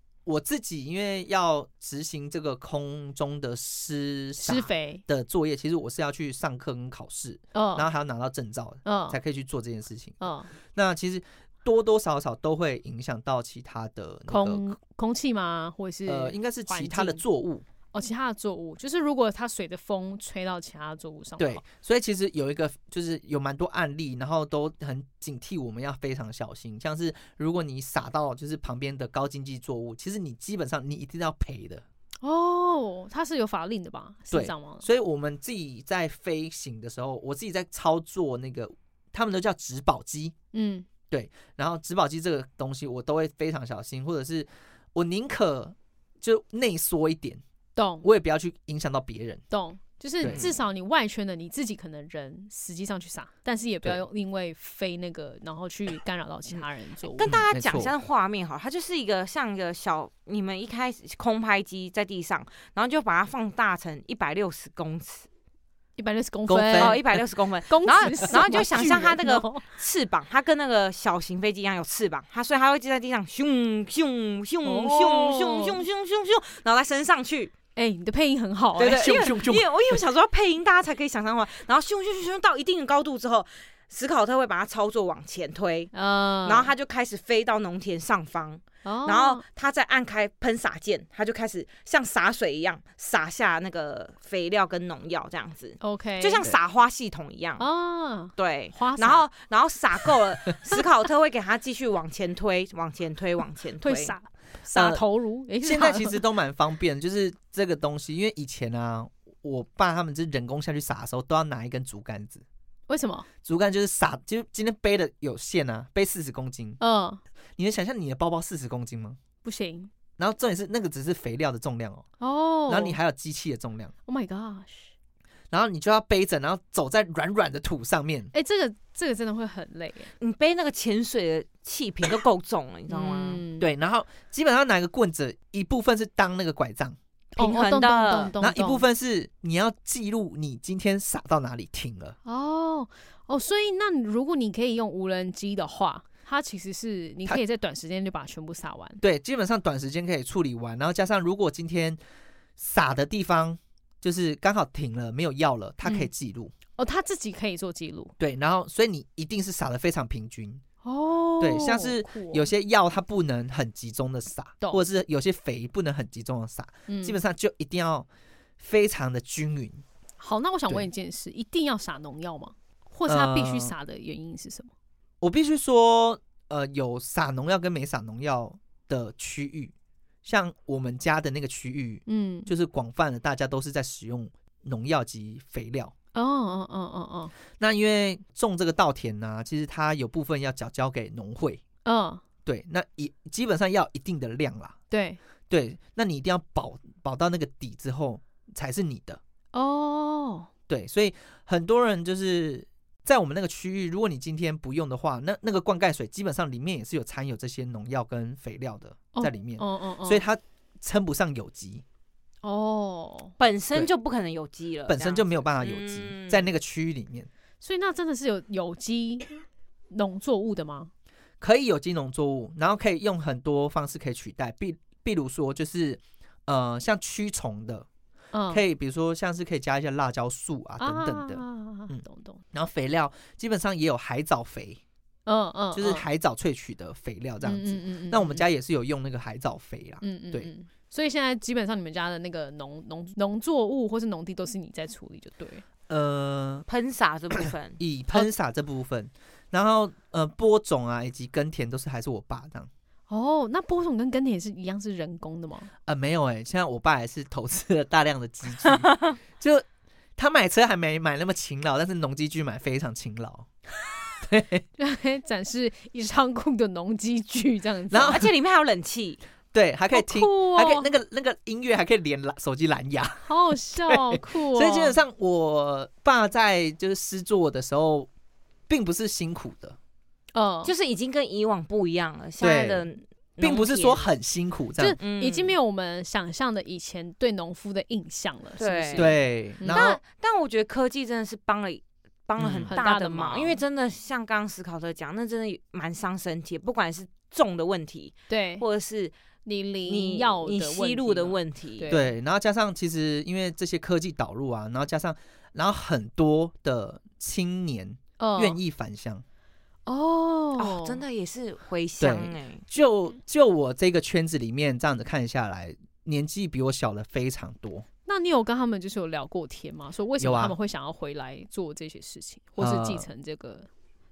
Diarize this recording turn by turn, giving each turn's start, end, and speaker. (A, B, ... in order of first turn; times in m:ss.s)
0:00.2-0:14.6 A
0:04.4-0:05.0 B
0:07.5-0:07.9 B
0:08.8-0:09.2 B
0:10.2-0:10.5 B
0:14.3-0:17.2 B
0:16.0-0:17.6 A
0:17.9-0:21.6 B
0:21.4-0:31.8 A
0:32.2-0:34.8 B
0:34.3-0:40.3 A
0:40.5-0:40.9 B
0:41.1-0:47.4 A
0:47.8-0:48.1 B
0:48.0-0:49.4 A
0:49.5-0:57.4 B
0:50.2-0:50.6 C
0:56.5-1:05.3 C
0:57.3-0:57.9 A
1:06.0-1:09.6 B
1:06.5-1:07.0 A
1:06.7-1:17.5 C
1:14.6-1:15.8 B
1:17.8-1:19.3 B
1:18.8-1:37.7 C
1:18.8-1:19.9 A
1:25.9-1:26.7 B
1:28.8-1:29.4 B
1:35.8-1:36.5 B
1:37.6-1:39.2 B
1:38.3-1:44.1 C
1:43.8-1:46.2 B
1:44.7-1:45.0 A
1:45.6-1:52.4 A
1:52.9-1:53.3 B
1:53.4-1:56.8 A
1:56.8-1:57.2 B
1:57.6-1:59.2 A
1:59.4-1:59.9 B
2:00.2-2:02.0 A
2:02.2-2:03.0 B
2:02.7-2:03.9 A
2:04.0-2:04.9 B
2:05.5-2:08.3 A
2:08.3-2:10.1 B
2:10.2-2:13.4 C
2:12.9-2:13.7 B
2:13.6-2:17.0 A
2:17.4-2:18.3 C
2:17.4-2:18.8 B
2:18.4-2:22.2 A
2:22.2-2:29.0 B
2:29.0-2:32.0 A
2:32.6-2:36.5 A
2:35.8-2:36.1 B
2:36.8-2:38.1 B
2:38.2-2:40.6 A
2:40.8-2:42.5 B
2:41.4-2:48.1 A
2:46.9-2:47.2 B
2:48.6-2:49.8 A
2:50.2-2:54.7 B
2:53.1-2:53.7 A
2:55.2-2:59.7 A
3:00.2-3:05.9 A
3:02.0-3:02.5 B
3:06.1-3:07.3 B
3:07.6-3:11.6 A
3:11.8-3:12.2 B
3:12.4-3:14.8 A
3:14.9-3:15.2 B
3:15.5-3:19.2 A
3:19.5-3:20.5 B
3:20.7-3:31.8 A
3:29.1-3:30.2 B
3:32.4-3:33.3 B
3:33.4-3:36.5 C
3:34.9-3:37.3 A
3:37.6-3:40.9 B
3:41.4-3:47.8 A
3:48.3-3:48.6 B
3:48.5-3:52.0 A
3:50.8-3:52.4 B
3:52.5-3:54.8 A
3:55.2-3:56.0 B
3:55.7-4:00.5 A
3:57.4-3:58.4 B
4:00.0-4:05.6 B
4:05.9-4:06.6 A
4:06.7-4:07.8 C
4:07.8-4:12.7 A
4:13.1-4:15.7 B
4:15.9-4:18.9 A
4:18.7-4:19.1 C
4:20.2-4:23.4 A
4:24.3-4:24.6 A
4:24.8-4:28.3 B
4:27.9-4:28.2 A
4:28.0-4:29.2 C
4:29.5-4:33.2 A
4:29.9-4:30.9 B
4:33.2-4:35.0 B
4:34.5-4:38.1 A
4:38.7-4:39.8 A
4:40.3-4:40.7 B
4:40.6-4:44.1 C
4:42.4-4:42.8 A
4:43.4-4:45.0 A
4:44.8-4:50.0 B
4:45.0-4:45.6 C
4:48.6-4:59.1 C
4:49.0-4:49.9 A
4:52.4-4:52.7 A
4:52.7-4:53.6 B
4:58.3-4:58.6 B
4:59.4-5:02.1 B
4:59.9-5:01.9 C
5:01.9-5:09.2 A
5:08.2-5:08.6 B
5:09.8-5:11.0 B
5:10.6-5:12.6 C
5:12.0-5:17.8 A
5:18.0-5:23.7 B
5:20.2-5:20.5 A
5:22.6-5:23.0 A